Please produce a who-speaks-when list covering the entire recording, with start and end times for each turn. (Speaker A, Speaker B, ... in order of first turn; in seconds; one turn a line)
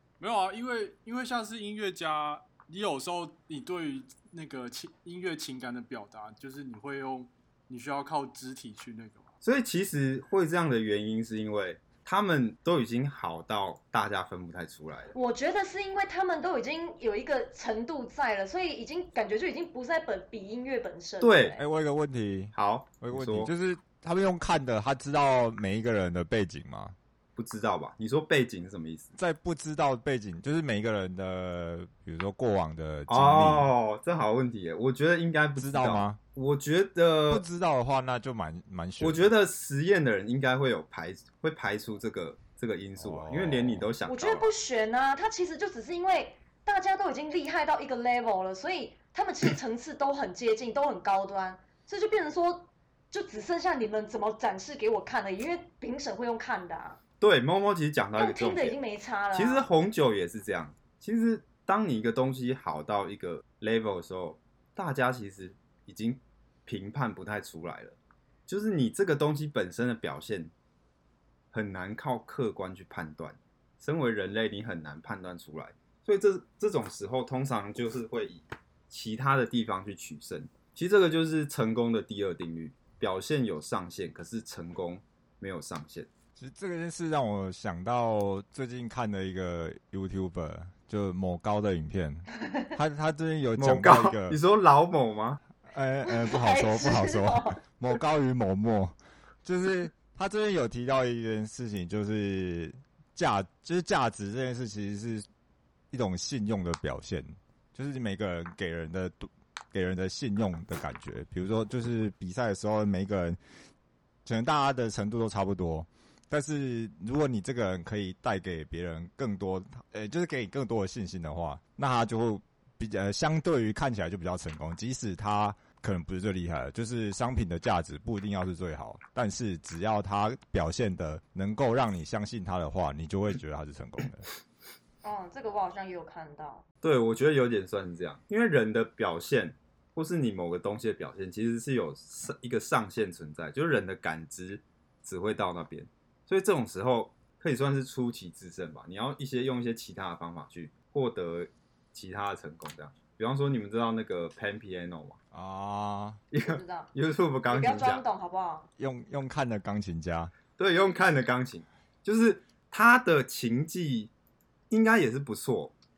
Speaker A: 0.2-9.3
Speaker B: 9.4-15.1
Speaker C: 15.1-21.6
Speaker B: 21.2-21.6
Speaker D: 21.6-26.9
Speaker B: 22.5-23.5
Speaker B: 27.4-29.1
Speaker D: 29.2-33.7
Speaker B: 33.1-37.5
Speaker D: 35.6-36.2
Speaker D: 37.3-39.3
Speaker B: 39.0-44.5
Speaker D: 43.0-43.9
Speaker C: 44.0-57.0
Speaker B: 57.2-58.8
Speaker C: 58.2-59.7
Speaker B: 59.3-70.5
Speaker B: 71.5-86.1
Speaker D: 86.4-94.4
Speaker B: 93.6-95.4
Speaker D: 95.7-105.2
Speaker C: 96.0-97.6
Speaker D: 105.9-113.4
Speaker D: 114.2-134.3
Speaker C: 135.0-136.6
Speaker B: 136.8-155.2
Speaker D: 155.3-156.2
Speaker B: 156.3-158.0
Speaker C: 156.4-156.9
Speaker C: 157.5-158.7
Speaker D: 158.8-160.3
Speaker B: 160.6-164.1
Speaker B: 164.7-165.7